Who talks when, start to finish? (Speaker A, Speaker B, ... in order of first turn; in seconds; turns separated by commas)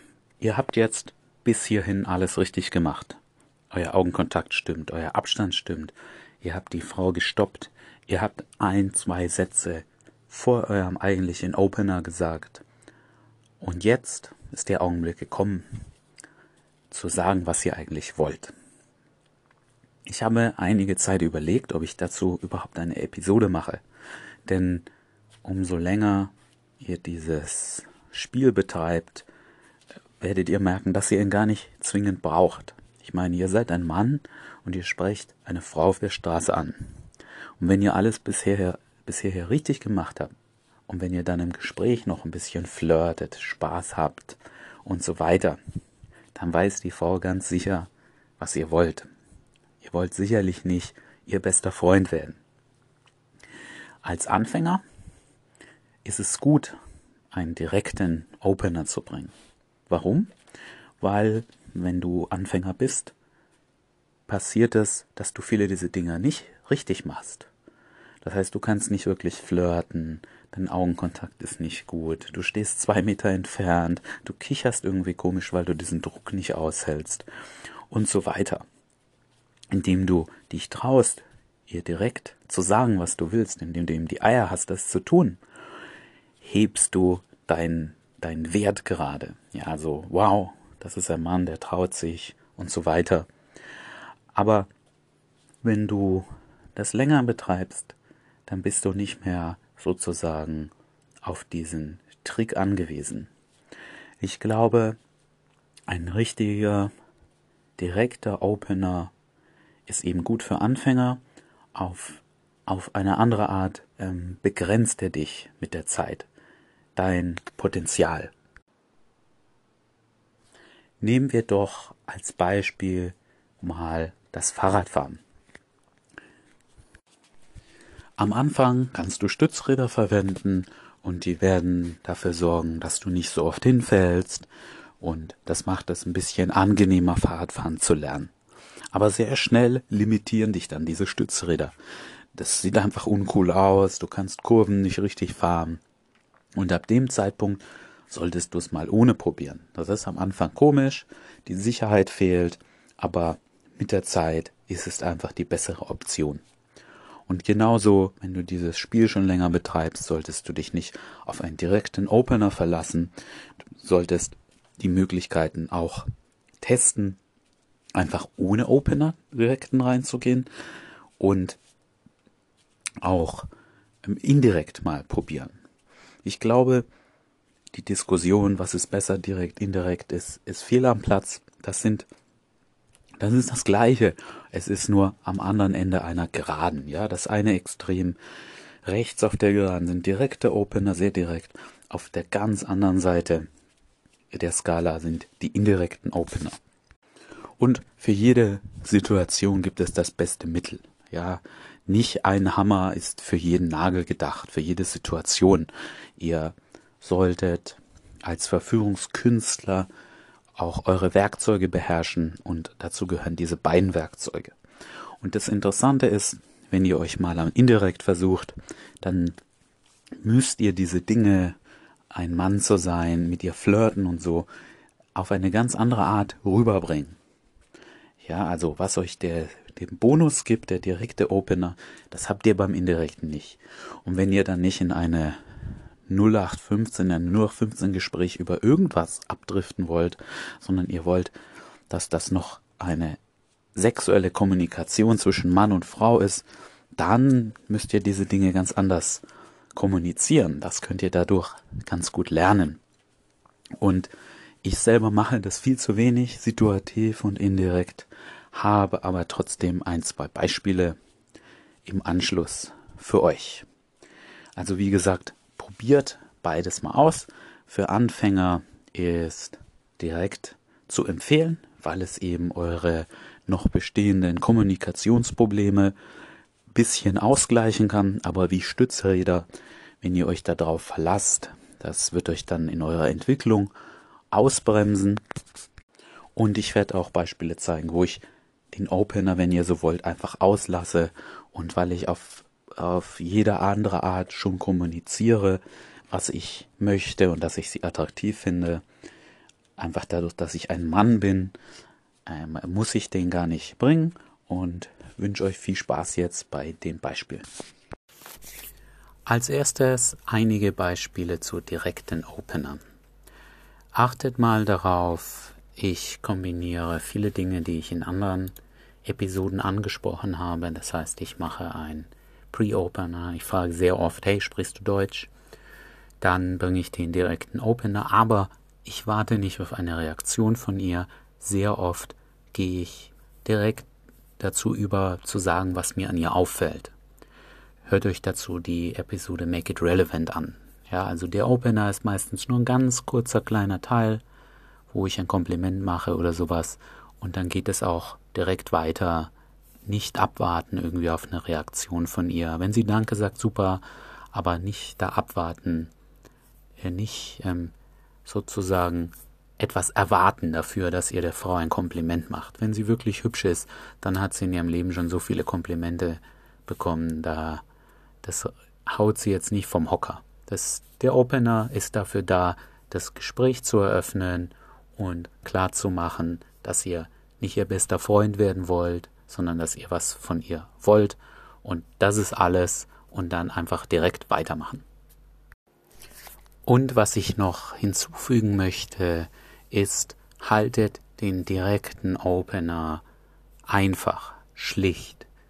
Speaker A: 0.4-3.2, Speaker A: 3.7-12.6, Speaker A: 13.6-15.7, Speaker A: 16.9-18.5, Speaker A: 20.1-23.8, Speaker A: 24.4-24.9, Speaker A: 25.4-29.2, Speaker A: 30.2-36.9, Speaker A: 37.6-40.3, Speaker A: 40.9-45.6, Speaker A: 46.3-49.1, Speaker A: 49.8-52.4, Speaker A: 54.0-54.8, Speaker A: 56.0-56.8, Speaker A: 57.3-59.3, Speaker A: 59.9-60.3, Speaker A: 61.0-63.1, Speaker A: 64.3-67.5, Speaker A: 68.2-77.2, Speaker A: 77.9-78.6, Speaker A: 79.7-85.4, Speaker A: 86.4-93.3, Speaker A: 94.3-94.7, Speaker A: 95.6-97.9, Speaker A: 98.5-100.7, Speaker A: 101.2-103.3, Speaker A: 104.2-105.0, Speaker A: 105.9-106.9, Speaker A: 107.8-109.1, Speaker A: 109.9-111.2, Speaker A: 111.7-116.3, Speaker A: 116.9-118.3, Speaker A: 121.0-125.2, Speaker A: 128.2-134.5, Speaker A: 135.0-138.3, Speaker A: 138.9-141.7, Speaker A: 142.3-145.8, Speaker A: 146.5-156.4, Speaker A: 157.3-163.1, Speaker A: 163.8-166.1, Speaker A: 166.6-167.2, Speaker A: 167.9-170.5, Speaker A: 171.2-171.6, Speaker A: 173.0-173.5, Speaker A: 174.0-175.5, Speaker A: 176.2-176.8, Speaker A: 177.7-182.1, Speaker A: 183.2-188.2, Speaker A: 188.8-193.5, Speaker A: 194.3-196.6, Speaker A: 197.6-209.9, Speaker A: 210.6-214.5, Speaker A: 215.2-219.4, Speaker A: 220.2-221.6, Speaker A: 222.1-224.5, Speaker A: 225.1-227.2, Speaker A: 228.2-235.4, Speaker A: 236.1-241.3, Speaker A: 241.9-243.2, Speaker A: 243.8-246.4, Speaker A: 246.9-249.2, Speaker A: 249.7-252.8, Speaker A: 253.8-254.1, Speaker A: 254.6-261.0, Speaker A: 261.9-263.6, Speaker A: 264.6-275.9, Speaker A: 276.7-279.4, Speaker A: 280.0-283.7, Speaker A: 284.3-285.2, Speaker A: 286.4-298.8, Speaker A: 299.8-301.5, Speaker A: 302.3-307.4, Speaker A: 309.2-312.8, Speaker A: 313.9-325.3, Speaker A: 326.2-333.9, Speaker A: 334.4-336.9, Speaker A: 337.9-344.2, Speaker A: 344.9-349.3, Speaker A: 349.8-355.9, Speaker A: 356.8-357.7, Speaker A: 358.2-367.6, Speaker A: 368.2-384.8, Speaker A: 386.6-393.0, Speaker A: 393.7-395.2